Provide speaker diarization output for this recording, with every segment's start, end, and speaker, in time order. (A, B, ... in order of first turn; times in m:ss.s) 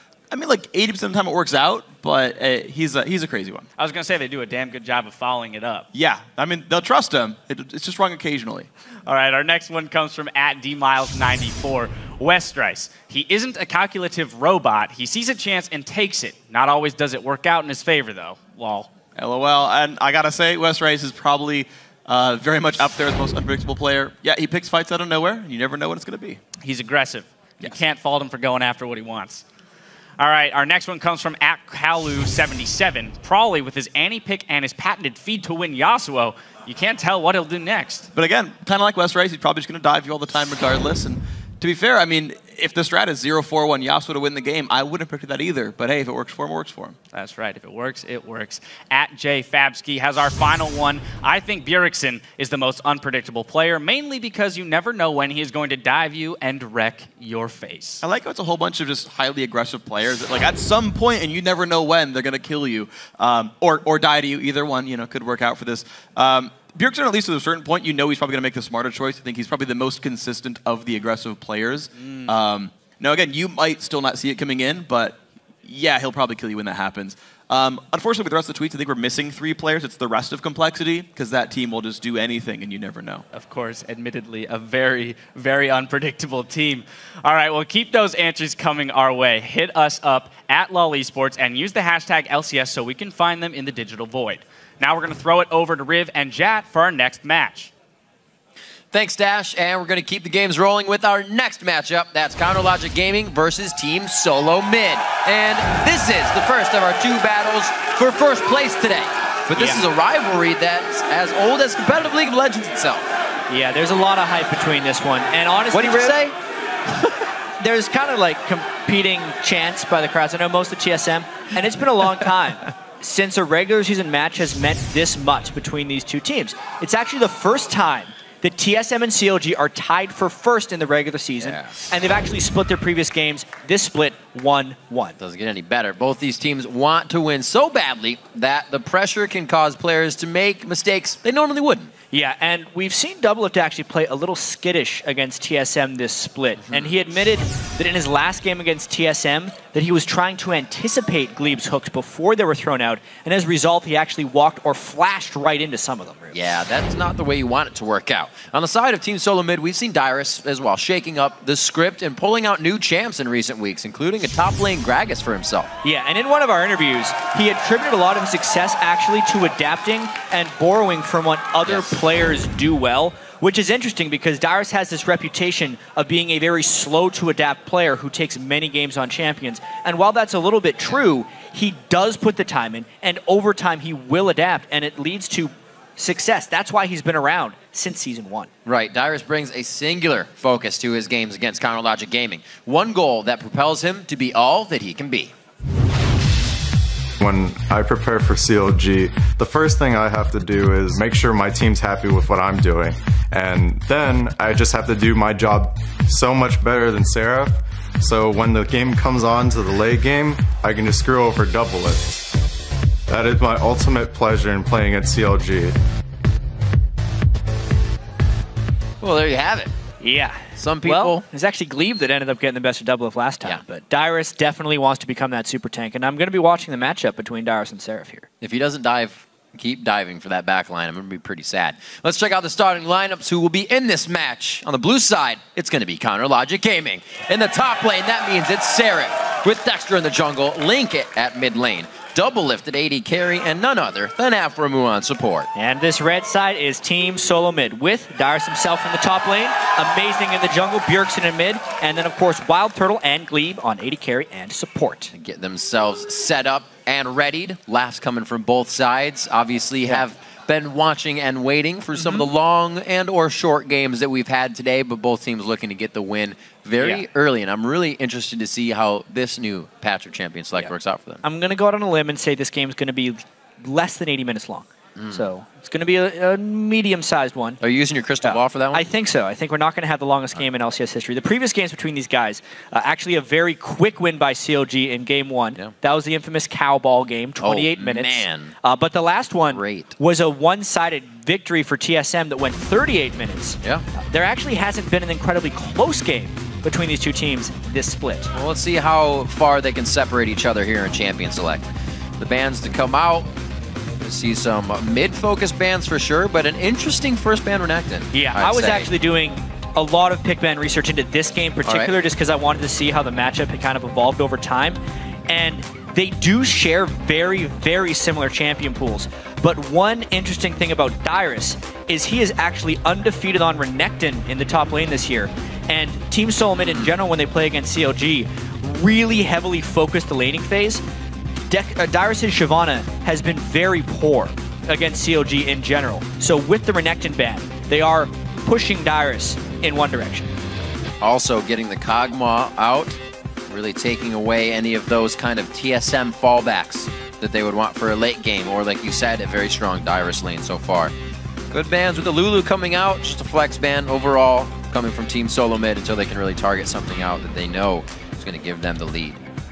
0:00.3-0:03.7 A
0:03.8-0:05.9 B
0:05.9-0:08.7 A
0:09.0-0:18.9 B
0:19.2-0:26.4 A
0:26.6-0:29.4 B
0:30.2-0:38.1 B
0:38.1-0:47.0 A
0:47.1-0:58.0 B
0:58.0-1:23.2 A
1:23.3-1:37.7 B
1:38.9-1:53.1 C
1:49.5-1:49.8 D
1:53.5-1:56.2 D
1:55.7-1:56.4 C
1:57.6-2:15.2 D
2:11.4-2:11.7 C
2:15.2-2:21.9 C
2:22.1-2:36.4 D
2:26.7-2:26.9 C
2:36.3-2:45.7 C
2:45.8-3:08.5 D
2:51.6-2:51.9 C
3:08.6-3:15.3 C
3:17.2-3:32.2 E
3:33.1-3:35.8 E
3:39.0-3:39.7 C
3:40.0-3:48.3 D
3:40.6-3:41.2 C
3:48.4-4:05.5 C
4:05.5-4:15.1 D
4:15.1-4:31.2 C
4:22.0-4:22.2 D
4:31.2-4:37.6 D
4:34.9-4:35.2 C
4:37.6-4:38.8 C
4:38.2-4:58.3 D
4:47.4-4:48.5 C
4:49.5-4:50.0 C
4:58.3-5:03.3 C
5:04.0-5:08.9 C
5:08.1-5:30.8 D
5:11.6-5:11.9 C
5:31.5-5:40.3 D
5:41.0-5:50.9 C
5:51.5-5:59.2 C